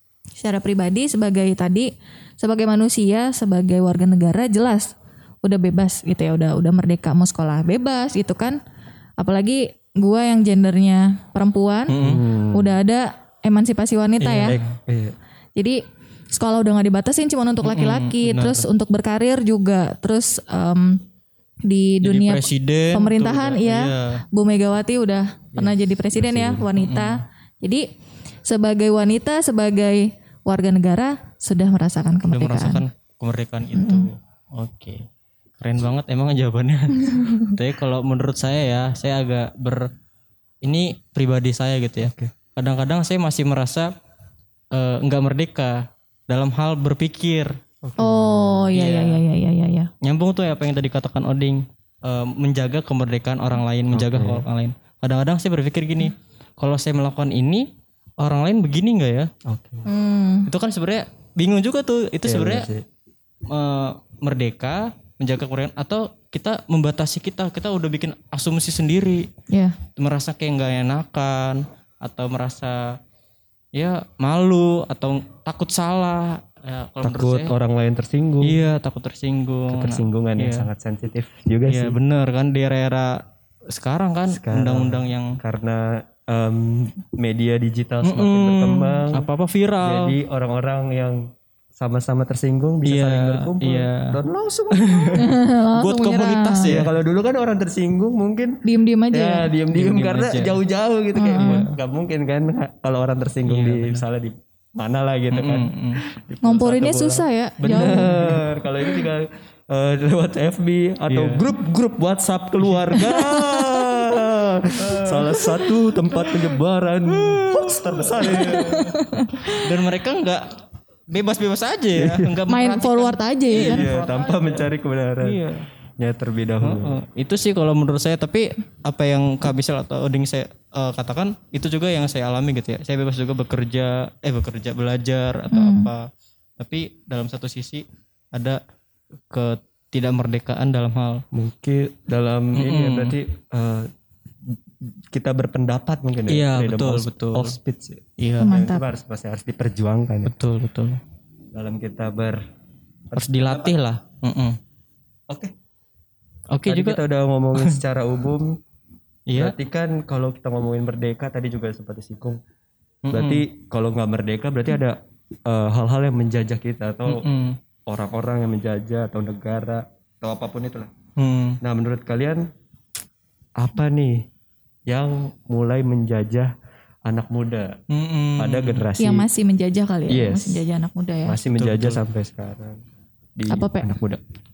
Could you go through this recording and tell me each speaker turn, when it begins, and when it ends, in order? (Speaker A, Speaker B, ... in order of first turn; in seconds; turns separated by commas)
Speaker A: 0.4-8.6, Speaker A: 9.2-12.0, Speaker B: 11.9-12.2, Speaker C: 12.0-12.7, Speaker A: 12.5-14.6, Speaker B: 14.2-14.7, Speaker C: 14.5-15.1, Speaker A: 15.6-15.8, Speaker A: 16.3-21.0, Speaker B: 17.6-18.7, Speaker A: 21.6-27.9, Speaker B: 22.0-24.2, Speaker C: 25.5-26.7, Speaker B: 26.8-27.2, Speaker A: 28.4-32.8, Speaker B: 32.3-35.1, Speaker A: 33.7-34.1, Speaker B: 35.6-39.9, Speaker A: 37.1-37.5, Speaker B: 40.6-43.9, Speaker C: 42.0-42.3, Speaker B: 44.7-47.6, Speaker C: 47.8-48.7, Speaker A: 48.0-49.9, Speaker B: 48.7-49.2, Speaker B: 50.0-59.3, Speaker C: 53.9-54.5, Speaker C: 59.5-59.9, Speaker A: 59.9-60.5, Speaker B: 60.5-62.7, Speaker C: 62.2-62.9, Speaker B: 63.5-69.3, Speaker A: 69.5-69.8, Speaker B: 70.0-73.0, Speaker B: 73.7-77.5, Speaker C: 77.0-78.6, Speaker B: 78.4-80.7, Speaker C: 79.7-82.0, Speaker B: 81.7-85.4, Speaker C: 84.3-89.3, Speaker B: 88.0-90.1, Speaker C: 89.8-91.2, Speaker C: 91.8-95.3, Speaker B: 92.8-94.1, Speaker B: 94.7-96.9, Speaker A: 95.1-96.8, Speaker C: 96.7-118.9, Speaker A: 98.6-99.5, Speaker B: 99.7-100.6, Speaker A: 101.1-101.7, Speaker B: 101.4-101.7, Speaker B: 103.5-104.0, Speaker B: 105.3-106.0, Speaker A: 106.4-108.2, Speaker B: 107.7-108.4, Speaker B: 111.1-111.5, Speaker B: 112.6-113.0, Speaker A: 113.1-113.8, Speaker B: 114.8-115.5, Speaker B: 117.1-120.5, Speaker A: 118.3-119.7, Speaker B: 121.1-124.7, Speaker C: 122.0-122.3, Speaker A: 122.5-123.9, Speaker C: 123.6-125.4, Speaker B: 125.2-125.7, Speaker C: 126.0-127.0, Speaker B: 126.6-136.1, Speaker A: 135.5-135.9, Speaker B: 136.6-138.6, Speaker B: 139.3-141.2, Speaker C: 141.3-143.9, Speaker B: 142.6-143.2, Speaker C: 145.1-150.3, Speaker B: 146.3-147.6, Speaker B: 148.2-148.5, Speaker A: 148.4-148.8, Speaker B: 150.2-151.0, Speaker C: 151.5-152.4, Speaker C: 153.1-153.7, Speaker B: 153.1-154.6, Speaker B: 156.5-157.0, Speaker C: 156.6-158.6, Speaker B: 157.5-157.8, Speaker B: 159.3-159.5, Speaker C: 159.3-162.4, Speaker B: 163.1-163.4, Speaker C: 163.1-167.3, Speaker B: 167.1-167.6, Speaker C: 167.9-170.9, Speaker B: 171.2-171.6, Speaker C: 171.6-172.5, Speaker C: 173.6-174.2, Speaker C: 174.9-176.5, Speaker C: 177.1-177.8, Speaker B: 177.9-178.9, Speaker C: 178.4-179.2, Speaker A: 179.0-181.4, Speaker C: 180.1-180.6, Speaker C: 181.2-182.8, Speaker B: 181.6-182.0, Speaker C: 183.3-184.2, Speaker A: 183.5-183.9